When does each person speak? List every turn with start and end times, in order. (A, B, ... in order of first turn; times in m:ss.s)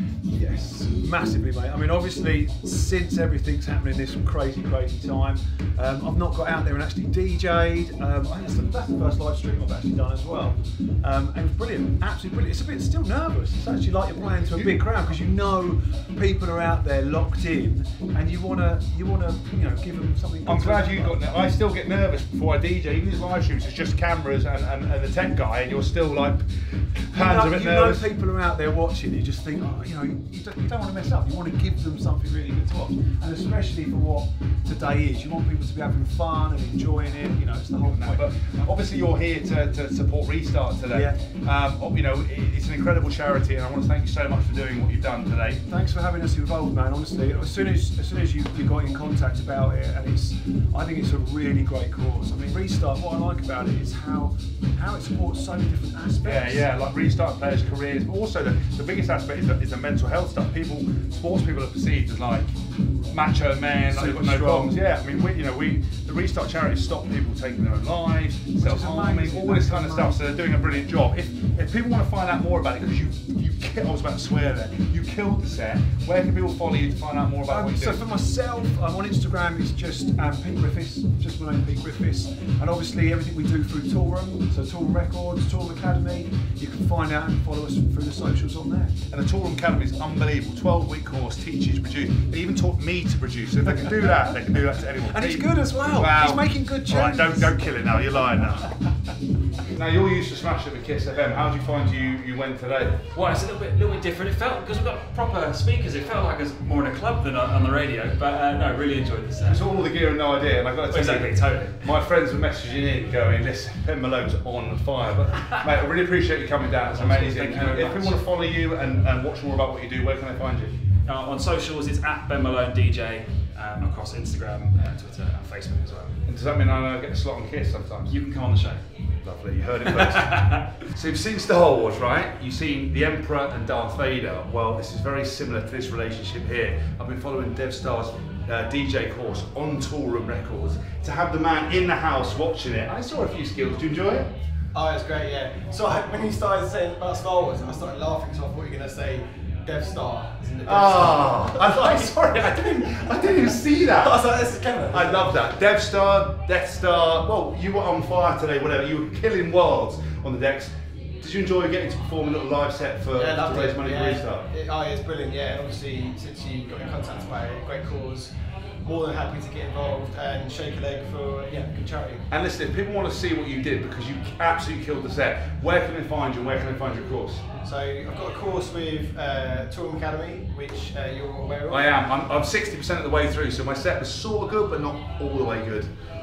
0:00.2-0:21.2 A
0:14.5-0:14.8 B
0:20.4-0:28.1 B
0:27.1-0:38.2 A
0:37.8-0:45.6 B
0:40.9-0:41.2 A
0:45.6-0:56.6 A
0:56.2-1:02.5 B
1:03.1-1:18.0 B
1:03.9-1:04.7 A
1:08.5-1:10.4 A
1:17.5-1:29.0 A
1:29.1-1:38.7 B
1:33.7-1:34.2 A
1:35.0-1:37.6 A
1:39.7-1:43.0 B
1:43.1-1:49.8 C
1:49.5-2:00.8 B
1:50.8-1:51.9 C
1:56.8-1:58.2 C
2:01.0-2:06.2 C
2:06.2-2:08.2 B
2:08.1-2:08.8 C
2:09.2-2:24.3 B
2:09.9-2:10.7 C
2:24.7-2:35.3 D
2:30.6-2:34.2 B
2:34.9-2:44.4 B
2:43.1-2:48.3 D
2:48.8-2:52.2 D
2:52.3-2:57.4 B
2:57.6-3:01.9 D
3:01.7-3:05.9 B